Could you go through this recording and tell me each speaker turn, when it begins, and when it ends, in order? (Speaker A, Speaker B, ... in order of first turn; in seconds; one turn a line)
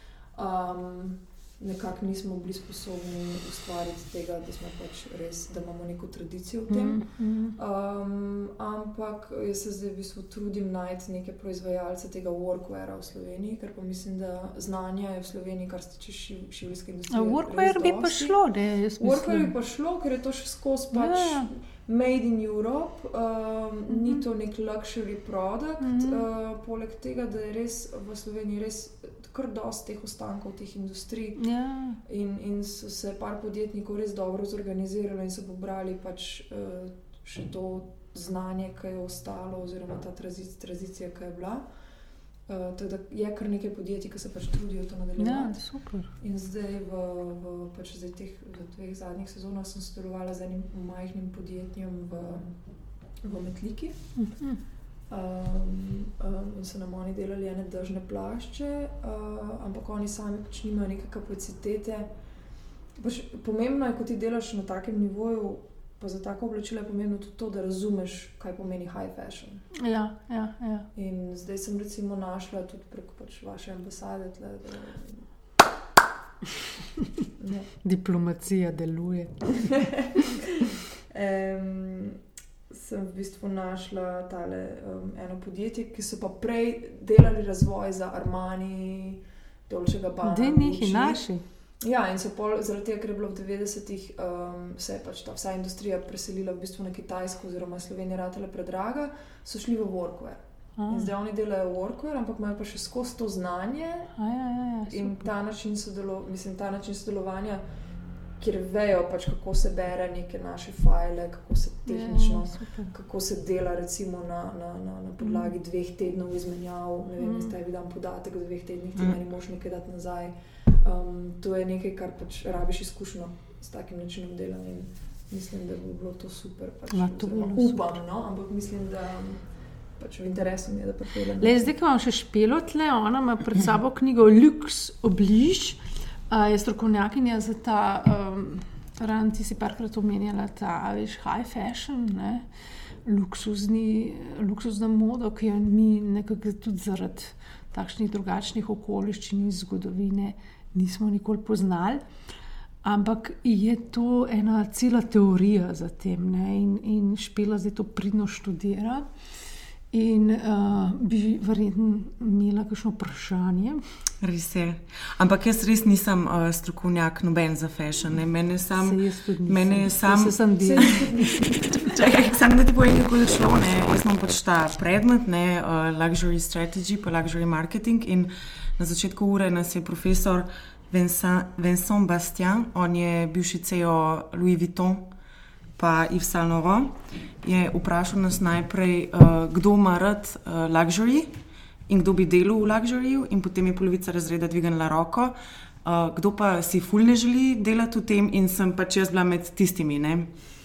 Speaker A: 0.3-18.4
Speaker B: 6.7-7.5
Speaker B: 17.1-19.5
Speaker A: 19.0-31.4
Speaker B: 20.9-21.5
Speaker B: 23.9-24.2
Speaker B: 25.8-26.2
Speaker B: 31.4-32.0
Speaker A: 32.0-41.7
Speaker A: 42.5-52.6
Speaker B: 45.2-46.1
Speaker A: 53.2-54.1
Speaker B: 54.1-54.6
Speaker A: 55.1-62.1
Speaker A: 63.0-69.7
Speaker B: 69.8-70.9
Speaker A: 70.9-75.3
Speaker A: 77.4-77.7
Speaker B: 77.8-79.6
Speaker A: 79.6-91.3
Speaker B: 90.2-91.4
Speaker A: 91.8-104.1
Speaker B: 100.8-101.1
Speaker B: 104.2-105.3
Speaker A: 104.8-107.6
Speaker A: 108.4-131.7
Speaker B: 111.9-112.9
Speaker B: 115.2-115.5
Speaker B: 117.2-117.5
Speaker B: 126.9-128.0
Speaker B: 131.4-142.5
Speaker B: 143.0-152.0
Speaker B: 152.8-159.1
Speaker B: 159.9-163.8
Speaker C: 164.2-185.1
Speaker B: 168.7-171.4
Speaker A: 170.6-171.9
Speaker C: 185.8-191.3
Speaker C: 191.9-200.3